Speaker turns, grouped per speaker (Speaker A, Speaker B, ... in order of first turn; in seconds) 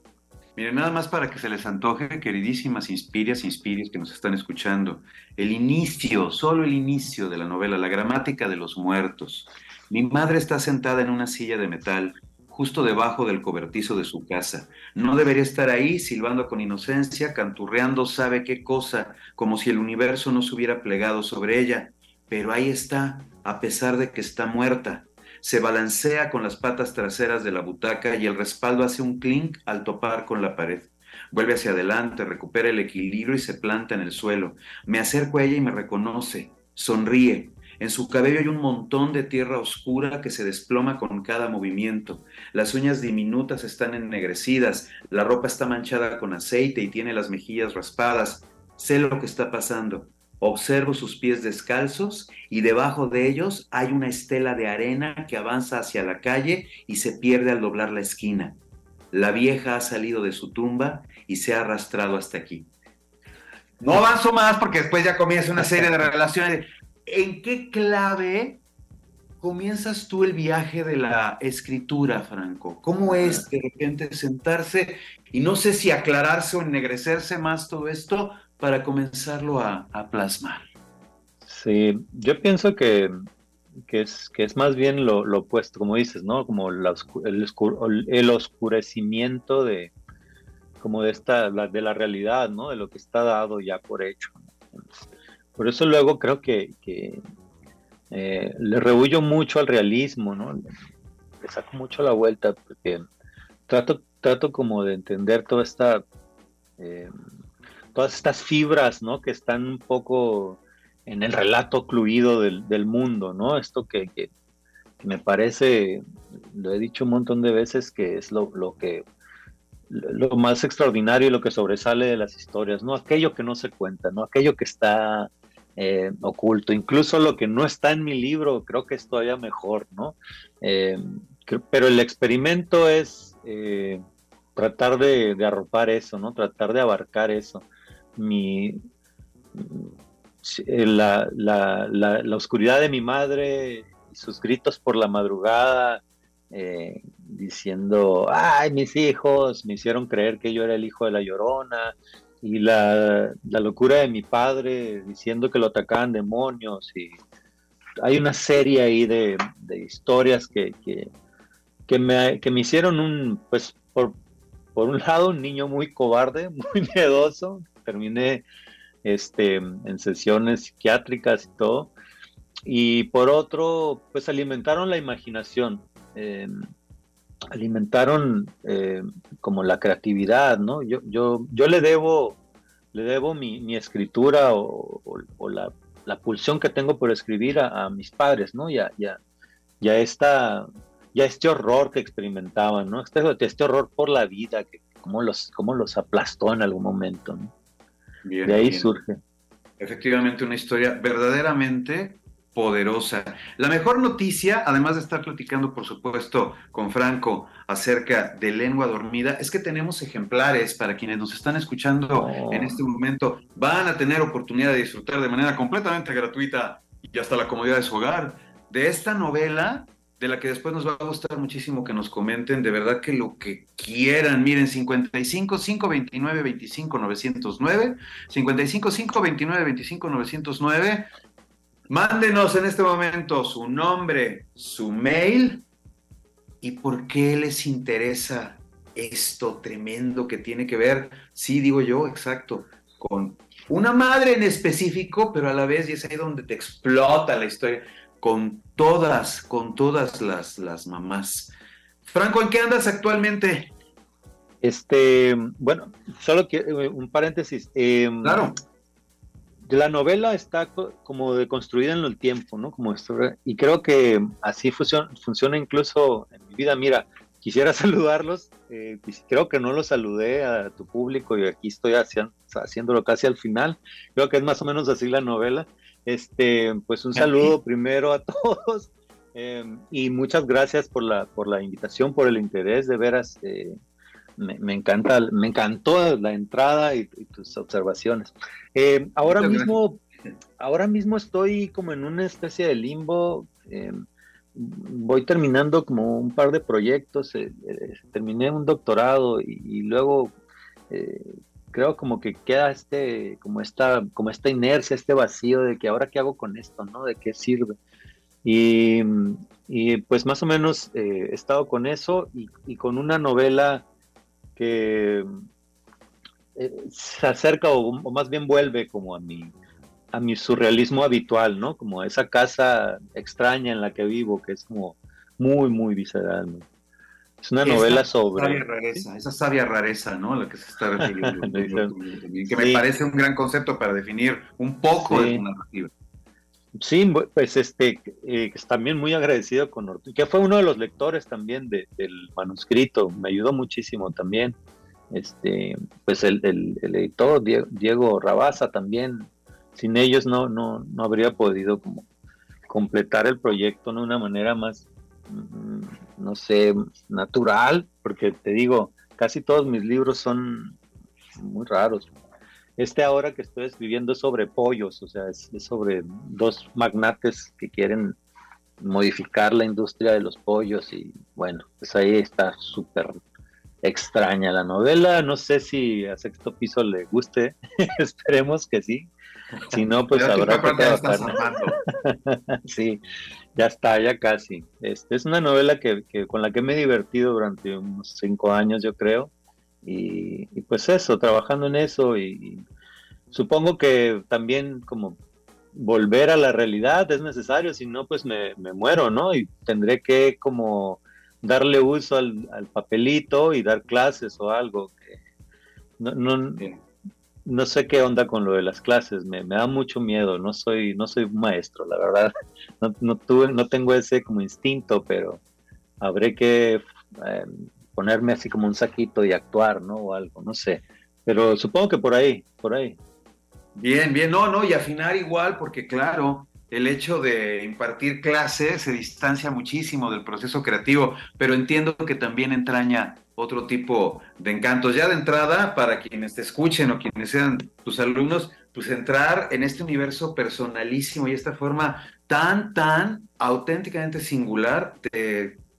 Speaker A: 0.6-58.6, 59.1-62.7, 63.8-68.6, 69.4-80.6, 198.2-198.9, 199.8-231.1, 231.9-235.6, 236.6-251.5, 252.0-253.7, 258.2-258.5, 277.2-277.5, 289.2-289.8, 327.6-335.9, 379.7-381.8, 423.8-445.6
Speaker B: 73.1-73.4, 81.4-83.1, 83.9-89.9, 90.8-97.2, 98.1-100.6, 101.4-103.0, 103.7-106.0, 106.8-107.1, 107.9-114.3, 115.0-119.0, 119.9-134.0, 134.6-138.8, 139.5-157.1, 158.0-161.1, 161.9-164.2, 164.8-168.4, 169.0-171.9, 172.7-176.5, 177.5-182.4, 182.9-189.2, 189.8-197.5, 198.4-199.2, 212.1-212.8, 254.6-258.5, 259.6-283.7, 284.4-290.0, 290.6-294.0, 294.5-300.3, 300.9-307.7, 308.4-313.8, 314.6-315.3, 316.5-319.5, 320.1-326.6, 327.4-329.0, 331.0-331.9, 332.5-332.9, 334.9-335.4, 336.8-344.6, 345.1-352.1, 352.7-360.8, 361.4-362.1, 362.8-368.2, 368.8-373.2, 373.8-379.1, 379.7-381.4, 382.0-383.0, 383.6-389.3, 389.8-392.6, 393.3-395.2, 395.7-405.2, 406.0-406.7, 407.4-415.4, 416.0-423.0